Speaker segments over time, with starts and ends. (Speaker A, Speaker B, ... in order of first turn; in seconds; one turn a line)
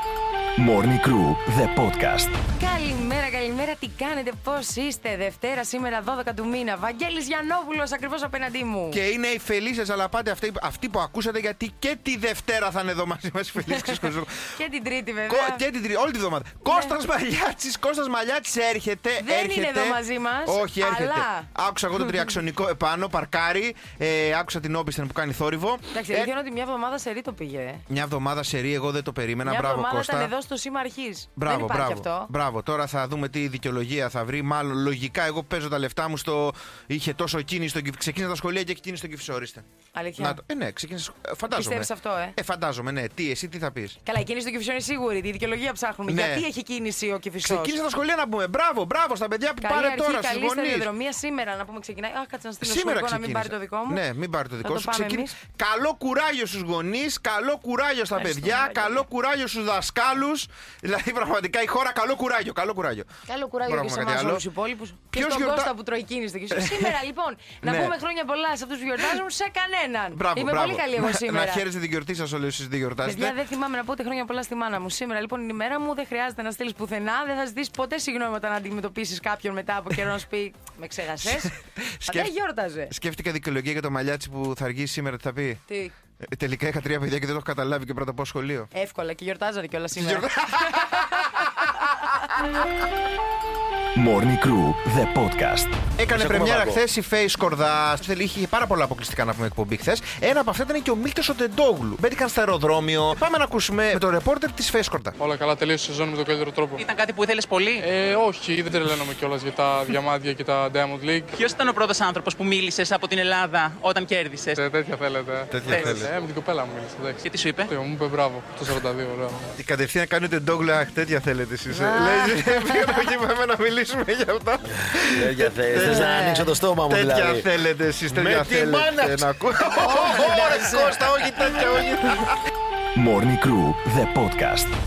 Speaker A: 0.6-2.4
Speaker B: 2.5-9.0
Speaker C: 8.9-14.4
Speaker B: 14.6-15.6
Speaker C: 15.3-26.3
Speaker B: 16.7-17.0
Speaker B: 19.2-21.5
Speaker B: 25.9-27.8
Speaker C: 27.9-30.3
Speaker B: 29.4-32.3
Speaker C: 31.4-39.6
Speaker B: 39.9-40.4
Speaker C: 40.2-44.0
Speaker B: 41.5-42.4
Speaker B: 44.0-47.8
Speaker C: 46.1-46.5
Speaker C: 47.4-50.9
Speaker B: 49.6-54.0
Speaker C: 52.6-63.1
Speaker B: 54.6-55.4
Speaker B: 58.2-59.0
Speaker B: 63.3-71.7
Speaker C: 63.7-64.5
Speaker C: 65.1-65.7
Speaker C: 66.5-66.9
Speaker C: 67.6-68.0
Speaker C: 70.1-73.4
Speaker B: 73.0-81.5
Speaker C: 81.2-82.3
Speaker B: 82.0-82.9
Speaker C: 82.9-85.6
Speaker B: 85.7-85.9
Speaker C: 86.2-88.7
Speaker B: 88.7-91.3
Speaker C: 90.0-91.7
Speaker A: 94.0-95.8
Speaker C: 96.0-105.2
Speaker D: 96.1-96.8
Speaker E: 105.2-106.8
Speaker F: 106.8-107.8
Speaker E: 107.8-111.5
Speaker F: 111.4-114.6
Speaker E: 114.5-119.5
Speaker C: 115.5-116.1
Speaker F: 117.3-117.7
Speaker C: 119.6-126.1
Speaker B: 121.7-123.1
Speaker D: 125.1-127.5
Speaker B: 125.8-126.5
Speaker C: 126.9-132.4
Speaker D: 128.1-130.1
Speaker B: 129.8-131.1
Speaker A: 132.9-134.7